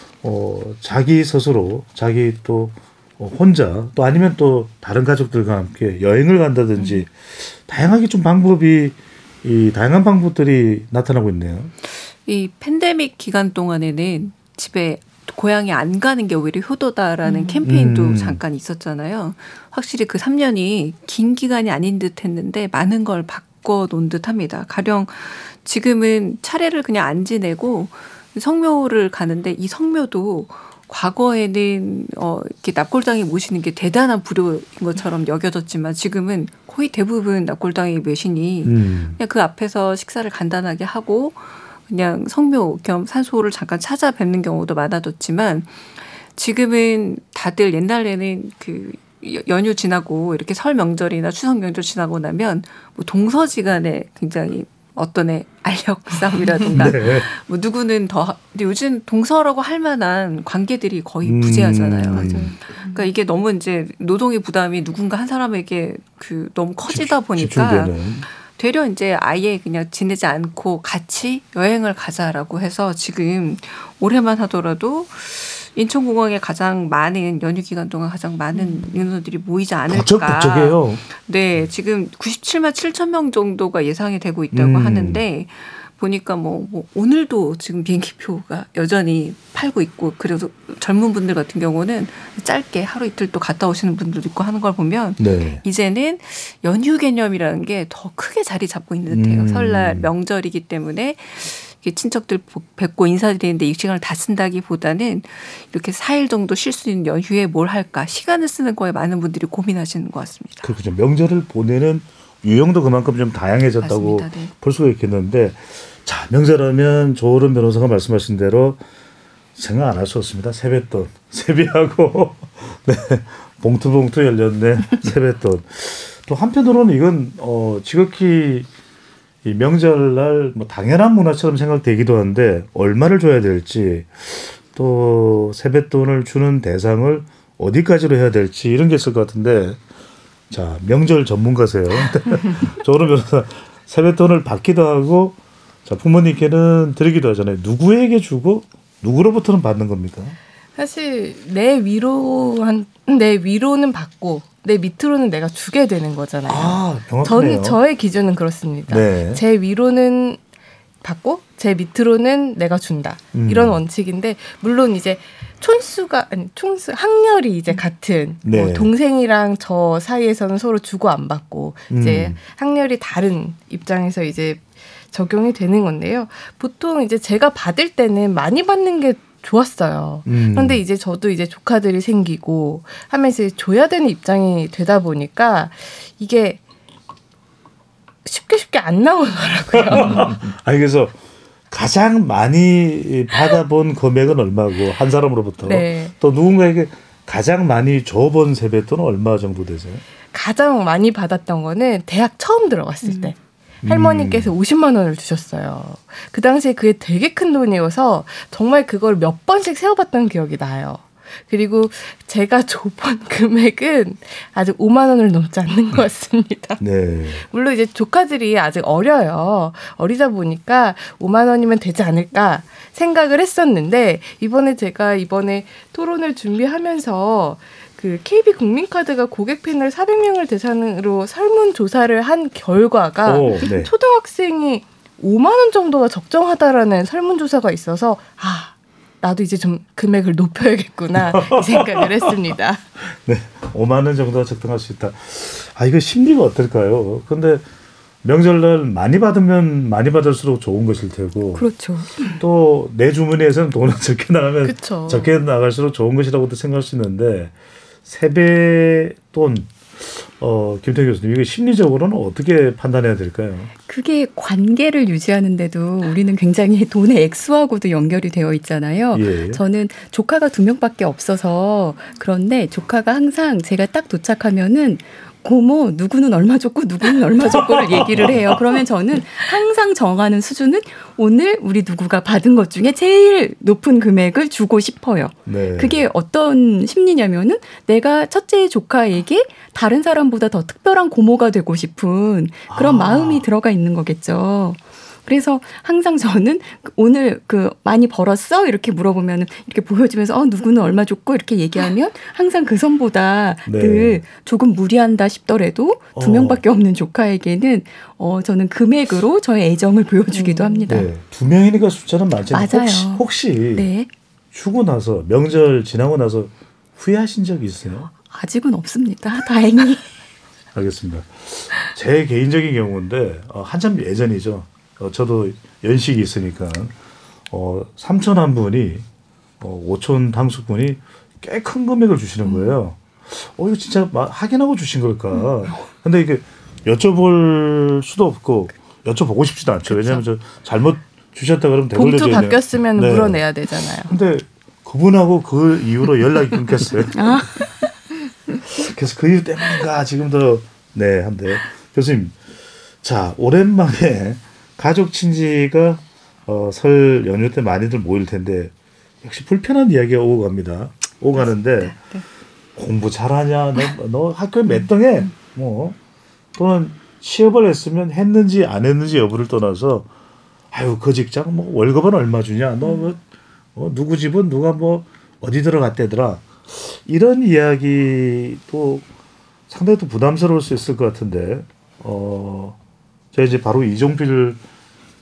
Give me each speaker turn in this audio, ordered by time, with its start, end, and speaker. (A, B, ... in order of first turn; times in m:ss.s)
0:00.2-0:11.7 A
0:06.8-0:07.0 B
0:12.0-1:50.7 B
0:17.2-0:17.6 C
0:17.6-0:18.4 A
0:38.6-0:39.2 A
0:56.7-0:57.3 A
1:01.2-1:02.5 A
1:02.2-1:03.0 C
1:06.9-1:08.2 A
1:18.5-1:19.0 C
1:19.8-1:21.0 A
1:24.5-1:25.2 A
1:35.2-1:35.6 A
1:39.1-1:40.1 A
1:50.6-1:58.8 A
1:53.8-1:54.5 B
1:59.6-2:08.7 A
2:09.4-2:19.8 A
2:20.5-2:30.4 A
2:30.8-2:40.4 D
2:36.5-2:37.8 A
2:38.9-2:39.4 A
2:41.0-3:06.6 D
2:43.3-2:43.8 A
2:48.4-2:48.9 A
2:51.9-2:52.4 A
3:00.2-3:00.8 A
3:08.2-3:10.4 D
3:09.7-3:11.2 A
3:11.7-3:20.0 A
3:15.6-3:16.1 D
3:20.3-3:36.8 D
3:23.1-3:23.3 C
3:23.8-3:24.5 A
3:36.8-3:37.4 A
3:37.4-4:02.8 D
3:53.2-3:53.9 A
4:01.1-4:02.3 A
4:03.0-4:07.6 A
4:08.2-4:17.5 A
4:11.5-4:12.4 C
4:14.6-4:15.3 D
4:18.0-4:23.7 A
4:23.9-5:11.1 C
4:29.1-4:29.6 A
4:37.4-4:38.8 A
4:45.4-4:46.0 A
4:52.7-4:53.4 A
5:03.6-5:04.2 A
5:06.1-5:06.6 A
5:10.3-5:11.0 D
5:10.9-5:13.9 A
5:12.5-5:14.1 C
5:14.5-5:18.1 A
5:18.3-5:20.1 C
5:20.7-5:26.9 A
5:27.5-5:29.0 A
5:29.6-5:47.7 A
5:41.9-5:44.1 D
5:47.1-5:47.6 C
5:48.7-5:52.4 A
5:53.0-6:02.0 A
6:01.3-6:02.2 B
6:02.8-6:06.0 A
6:06.6-6:10.1 A
6:10.7-6:13.2 A
6:13.8-6:19.0 A
6:19.7-6:22.8 A
6:23.3-6:24.6 A